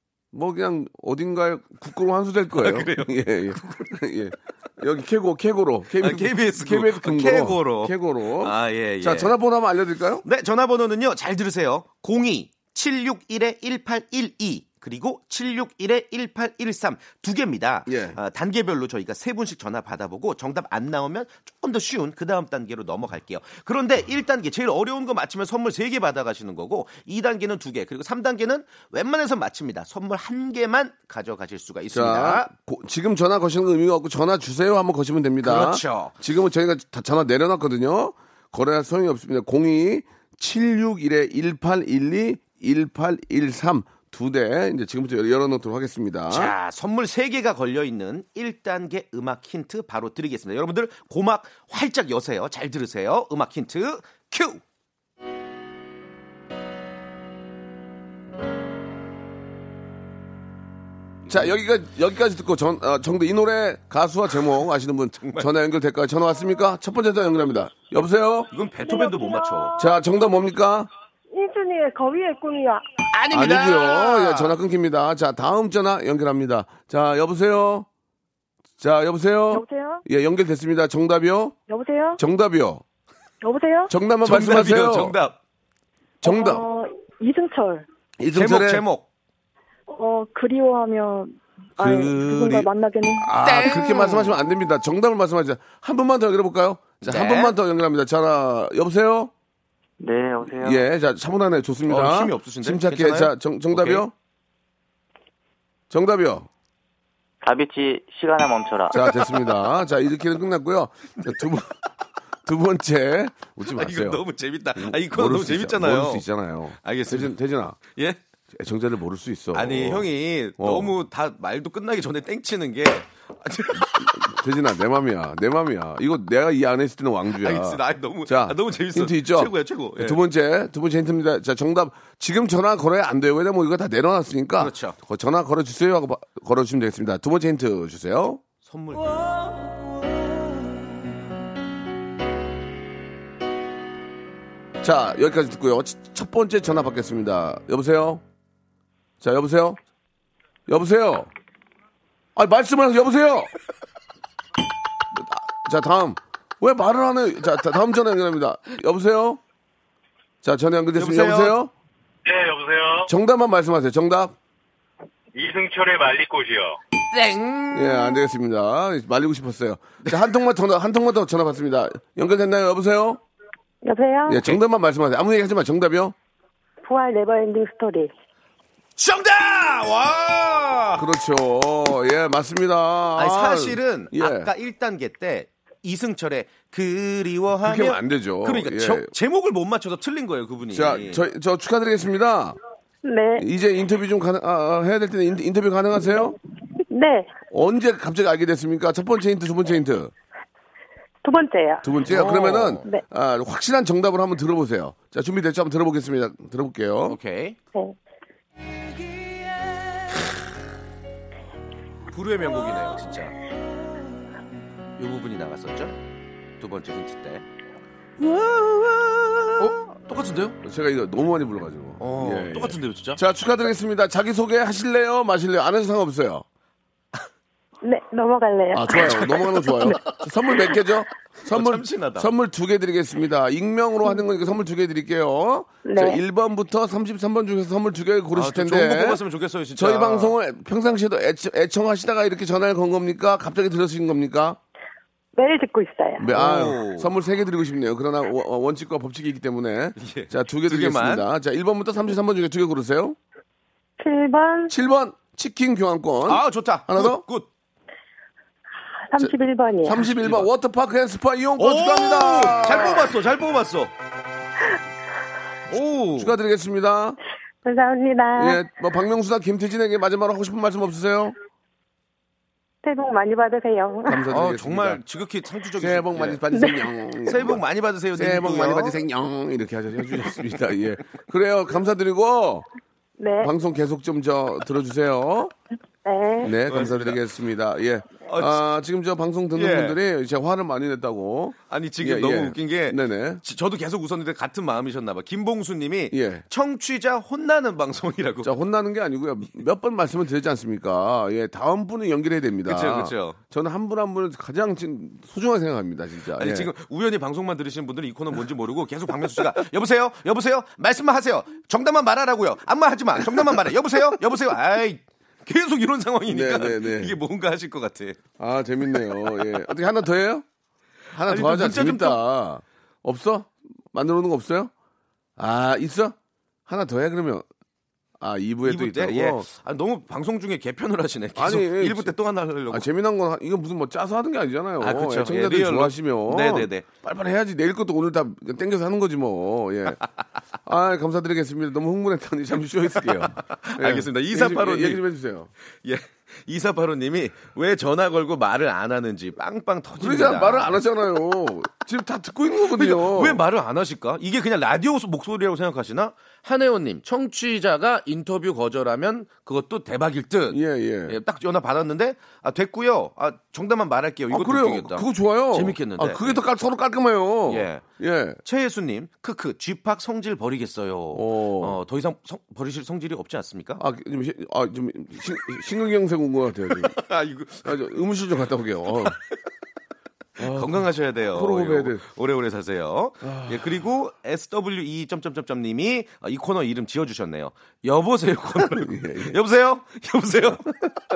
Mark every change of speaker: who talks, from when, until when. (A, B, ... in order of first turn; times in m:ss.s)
0:00.3-0:10.2 A
0:02.5-0:04.0 B
0:05.9-0:09.4 B
0:10.2-0:32.5 B
0:17.9-0:18.2 A
0:31.9-0:46.5 A
0:35.4-0:36.1 B
0:46.3-0:54.6 B
1:01.3-1:08.5 A
1:05.2-1:05.5 B
1:08.5-1:09.8 B
1:08.8-1:09.9 C
1:09.8-1:10.9 A
1:11.3-1:12.8 C
1:13.1-1:14.5 B
1:13.3-1:17.9 A
1:18.8-1:21.5 A
1:19.5-1:20.0 C
1:21.7-1:22.2 C
1:22.2-1:22.8 A
1:23.4-1:23.9 C
1:23.9-1:25.2 A
1:24.2-1:25.4 B
1:26.2-1:26.6 A
1:26.2-1:27.8 C
1:28.2-1:28.8 A
1:28.3-1:29.0 B
1:29.9-1:33.3 C
1:31.8-1:39.3 A
1:33.4-1:34.4 B
1:37.0-1:37.5 B
1:40.0-1:40.8 D
1:40.5-1:44.1 A
1:41.9-1:44.0 B
1:45.9-1:46.5 A
1:47.4-1:48.9 D
1:48.9-1:49.5 B
1:48.9-1:51.7 A
1:52.4-1:54.2 A
1:53.7-1:56.2 B
1:54.8-1:57.8 A
1:56.8-1:57.3 B
1:57.9-1:58.2 B
1:58.5-2:00.9 A
1:59.5-2:04.1 B
2:03.8-2:18.4 A
2:07.3-2:10.2 B
2:14.6-2:15.0 B
2:18.6-2:19.1 B
2:24.8-2:28.2 A
2:29.2-2:29.8 A
2:30.7-2:31.3 A
2:32.4-2:33.5 A
2:35.1-2:39.4 A
2:40.4-2:41.7 A
2:41.0-2:41.6 B
2:42.2-2:43.1 E
2:43.0-2:44.3 A
2:45.3-2:46.8 E
2:47.1-2:48.2 B
2:47.7-2:53.2 A
2:53.8-2:54.4 C
2:54.3-2:56.1 A
2:56.8-2:58.1 C
2:59.0-3:01.0 B
3:01.0-3:04.5 A
3:03.2-3:11.2 B
3:07.6-3:09.1 A
3:10.7-3:12.6 A
3:13.0-3:13.4 C
3:13.4-3:16.4 A
3:16.9-3:17.3 C
3:17.5-3:20.1 A
3:21.2-3:21.9 C
3:21.8-3:27.2 A
3:22.0-3:22.8 B
3:27.0-3:27.6 B
3:32.1-3:33.3 B
3:35.0-3:35.9 B
3:36.6-3:37.4 B
3:38.2-3:39.8 A
3:39.6-3:40.6 B
3:40.6-3:46.4 A
3:42.0-3:43.2 B
3:47.8-3:50.0 C
3:48.7-3:59.2 A
3:49.0-3:49.2 B
3:49.8-3:50.2 B
3:51.5-3:52.3 B
3:55.8-3:56.2 C
3:58.3-4:00.4 B
3:59.8-4:04.6 A
4:05.4-4:06.3 C
4:06.2-4:13.2 A
4:06.3-4:07.1 B
4:10.0-4:11.3 B
4:14.0-4:14.7 C
4:14.7-4:17.2 A
4:16.2-4:17.5 B
4:19.1-4:20.0 C
4:19.2-4:23.1 A
4:20.0-4:20.5 B
4:21.6-4:23.9 B
4:25.7-4:26.3 B
4:26.2-4:27.2 A
4:27.6-4:28.6 C
4:28.4-4:31.3 A
4:32.8-4:34.2 C
4:34.0-4:35.0 A
4:34.3-4:36.4 B
4:35.8-4:42.6 A
4:36.5-4:36.9 C
4:37.3-4:39.0 B
4:43.2-4:43.5 C
4:43.4-4:45.5 A
4:46.0-4:46.5 C
4:46.4-4:53.4 A
4:46.6-4:47.2 B
4:48.3-4:48.7 B
4:49.5-4:50.0 B
4:51.7-4:58.5 B
4:56.1-4:56.4 A
4:58.4-5:06.7 A
5:02.6-5:03.4 B
5:06.4-5:18.2 B
5:16.3-5:17.2 A
5:18.4-5:20.4 A
5:21.1-5:24.7 A
5:21.3-5:22.2 B
5:25.4-5:26.2 A
5:26.7-5:27.4 A
5:28.2-5:29.5 A
5:28.6-5:32.9 B
5:31.4-5:32.1 A
5:32.7-5:40.0 A
5:34.8-5:36.8 B
5:40.6-5:45.5 A
5:42.9-5:45.0 B
5:45.8-5:50.8 B
5:50.0-5:53.4 A
5:52.7-6:06.4 B
6:00.5-6:01.2 A
6:04.3-6:08.4 A
6:07.5-6:07.8 B
6:08.4-6:13.8 B
6:11.1-6:11.8 A
6:13.8-6:16.9 A
6:16.7-6:17.8 B
6:17.6-6:19.2 A
6:20.4-6:22.0 A
6:20.4-6:30.9 B
6:23.2-6:23.8 A
6:28.6-6:29.4 A